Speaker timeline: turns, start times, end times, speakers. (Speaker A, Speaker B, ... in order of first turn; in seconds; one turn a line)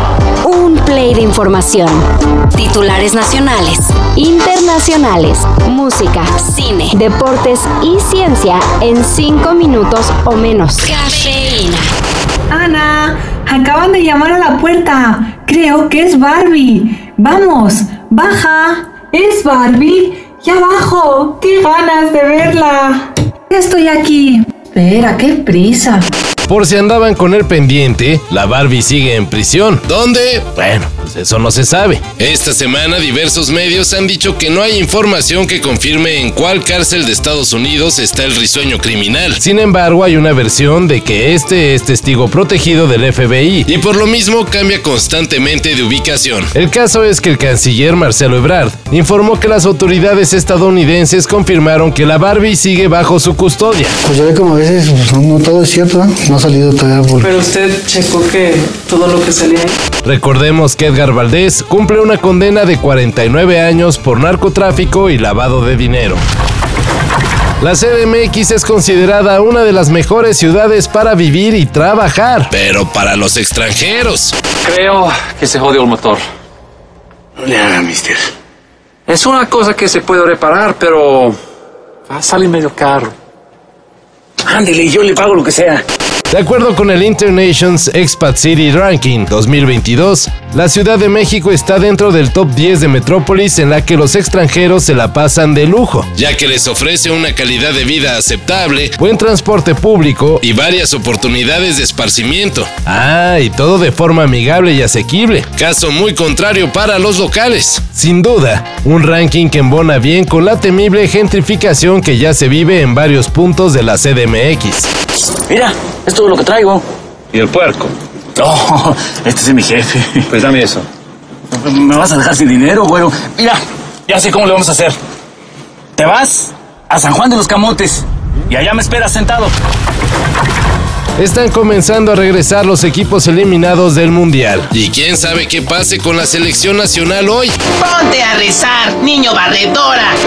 Speaker A: 0.4-11.9
Speaker B: 12.5-26.1
Speaker C: 26.5-54.0
Speaker D: 54.0-57.4
Speaker E: 57.2-59.8
Speaker C: 60.0-66.2
Speaker C: 67.6-74.3
Speaker F: 74.7-76.2
Speaker G: 77.4-78.2
Speaker F: 79.1-80.5
Speaker F: 82.1-83.0
Speaker G: 84.5-85.8
Speaker C: 86.3-114.9
Speaker G: 115.5-116.8
Speaker G: 117.5-120.8
Speaker G: 121.5-125.0
Speaker G: 126.0-129.5
Speaker C: 131.2-137.5
Speaker H: 137.8-140.1